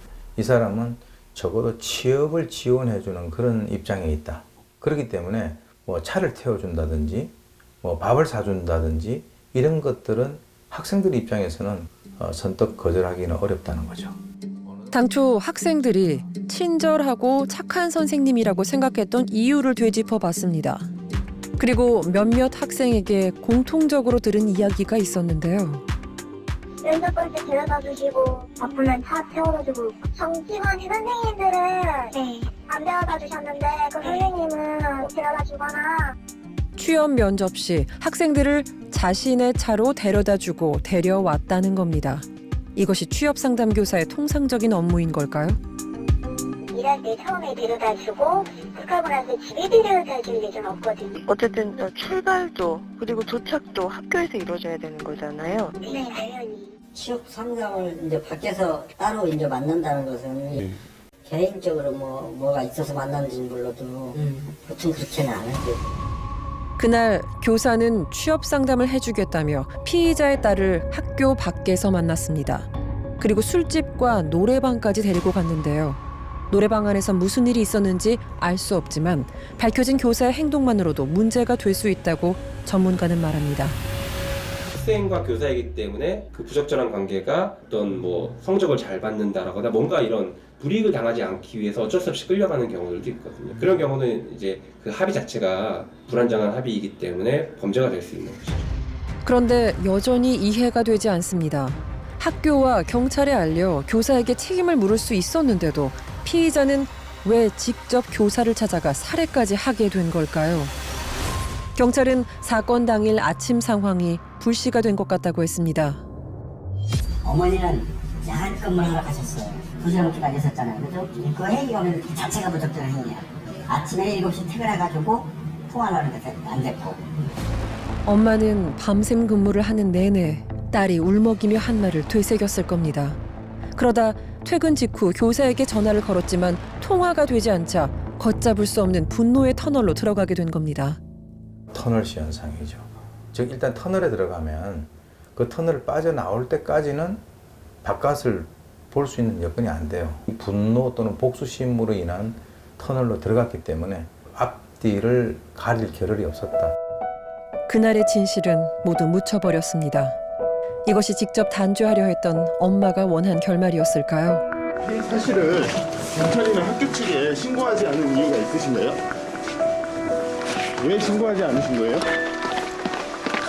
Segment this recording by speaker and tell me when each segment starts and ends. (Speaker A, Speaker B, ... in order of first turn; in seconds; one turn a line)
Speaker A: 0.4-14.2
Speaker B: 14.9-20.9
Speaker B: 21.6-25.8
Speaker C: 26.8-36.2
Speaker B: 36.8-42.2
Speaker B: 42.8-45.6
Speaker C: 46.7-51.1
Speaker D: 51.2-55.8
Speaker C: 55.8-56.7
Speaker E: 56.9-60.6
Speaker E: 61.3-65.9
Speaker B: 66.8-76.0
Speaker B: 76.5-83.8
Speaker F: 84.7-98.7
Speaker B: 99.2-110.7
Speaker B: 111.8-116.0
Speaker E: 117.2-127.0
Speaker B: 128.1-133.2
Speaker B: 133.8-141.0
Speaker A: 141.7-147.2
Speaker A: 147.8-156.7
Speaker B: 157.7-160.2
Speaker B: 160.9-164.4
Speaker G: 164.8-169.0
Speaker G: 170.8-172.1